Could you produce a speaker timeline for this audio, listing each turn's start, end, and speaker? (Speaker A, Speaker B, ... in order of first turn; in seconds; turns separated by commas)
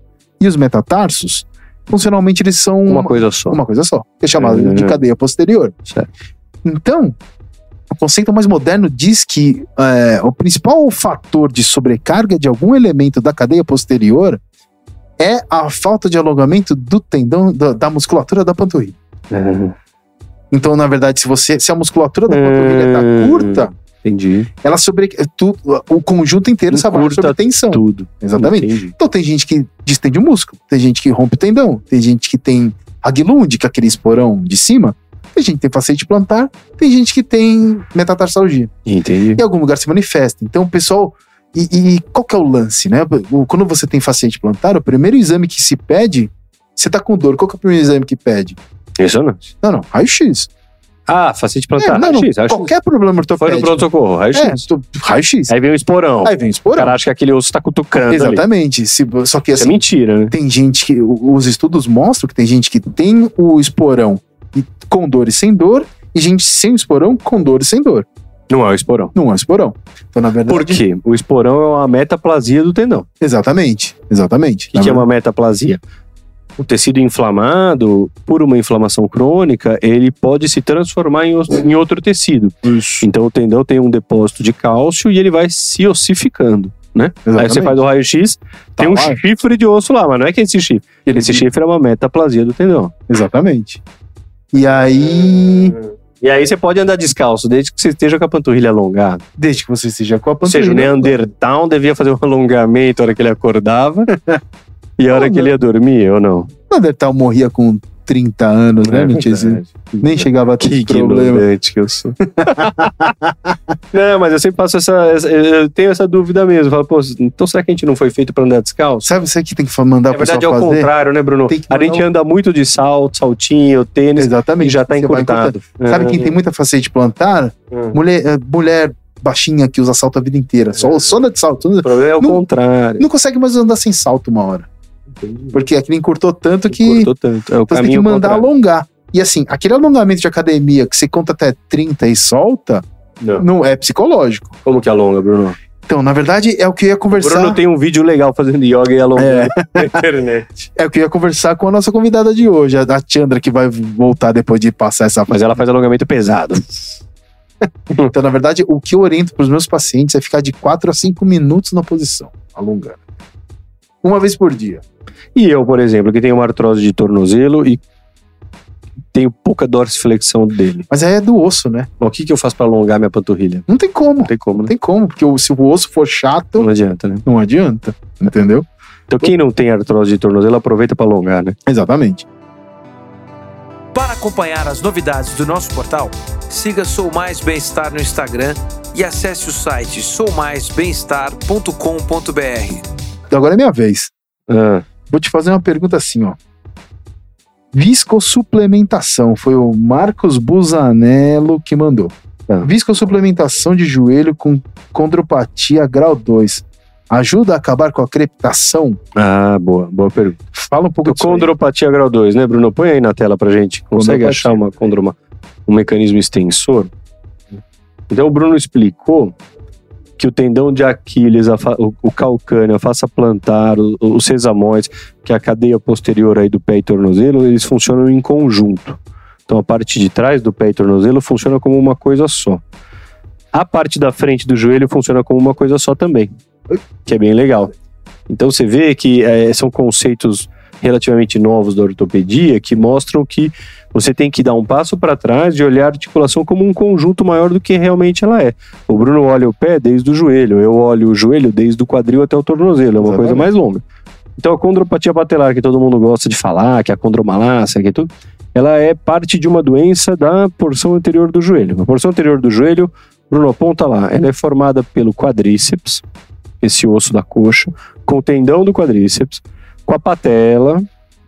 Speaker A: 0.4-5.8, Speaker B: 2.9-3.6, Speaker B: 4.4-5.0, Speaker A: 6.6-7.2, Speaker A: 7.9-14.4, Speaker A: 15.2-18.9, Speaker B: 19.3-19.8, Speaker A: 20.5-23.7, Speaker B: 22.3-24.5, Speaker A: 24.6-38.7, Speaker B: 26.7-28.9, Speaker B: 38.9-39.4, Speaker A: 39.3-48.6, Speaker B: 49.0-49.5, Speaker A: 49.6-50.5, Speaker B: 51.1-52.7, Speaker A: 51.8-55.5, Speaker B: 53.4-54.6, Speaker B: 55.5-58.4, Speaker A: 56.2-57.0, Speaker A: 58.1-68.1, Speaker B: 59.6-60.3, Speaker B: 68.5-69.1, Speaker A: 69.1-70.8, Speaker B: 70.5-73.1, Speaker A: 73.2-75.0, Speaker B: 74.7-75.8, Speaker B: 76.6-92.9, Speaker A: 82.6-83.0, Speaker A: 87.3-87.8, Speaker A: 88.8-89.2, Speaker A: 91.1-91.4, Speaker A: 93.1-93.8, Speaker A: 94.5-95.8, Speaker B: 95.2-99.2, Speaker A: 99.4-101.2, Speaker B: 100.4-104.1, Speaker B: 105.0-106.5, Speaker A: 105.1-105.5, Speaker A: 106.7-111.5, Speaker B: 108.8-112.9, Speaker A: 112.4-113.5, Speaker B: 113.9-119.1, Speaker A: 119.0-120.9, Speaker B: 120.1-126.4, Speaker A: 121.5-122.0, Speaker A: 124.2-132.4, Speaker B: 130.8-131.1, Speaker B: 131.8-133.1, Speaker A: 133.0-134.7, Speaker B: 135.2-135.6, Speaker A: 135.5-137.1, Speaker B: 136.7-138.5, Speaker A: 137.7-142.8, Speaker B: 143.2-143.4, Speaker A: 143.4-144.6, Speaker B: 144.6-145.6, Speaker A: 145.9-147.6, Speaker B: 147.2-150.6, Speaker A: 149.2-150.0, Speaker A: 150.7-155.5, Speaker B: 155.3-156.9, Speaker A: 157.9-163.0, Speaker A: 164.0-164.8, Speaker B: 165.3-167.8, Speaker B: 169.1-170.9, Speaker A: 170.9-171.9, Speaker B: 172.0-173.7, Speaker A: 173.7-176.7, Speaker B: 174.3-174.7, Speaker B: 176.6-177.2, Speaker A: 177.2-178.7, Speaker B: 179.1-181.6, Speaker A: 181.7-182.3, Speaker C: 183.9-192.8, Speaker A: 193.3-194.1, Speaker B: 194.5-194.8, Speaker A: 195.1-196.4, Speaker A: 197.7-209.0, Speaker B: 209.2-210.4, Speaker A: 210.6-211.5, Speaker B: 211.1-216.9, Speaker A: 213.9-214.7, Speaker B: 218.1-219.3, Speaker B: 220.2-232.6, Speaker B: 233.5-236.3, Speaker B: 237.0-237.7, Speaker B: 238.3-253.8, Speaker A: 253.0-253.5, Speaker B: 254.4-266.0, Speaker B: 266.6-270.9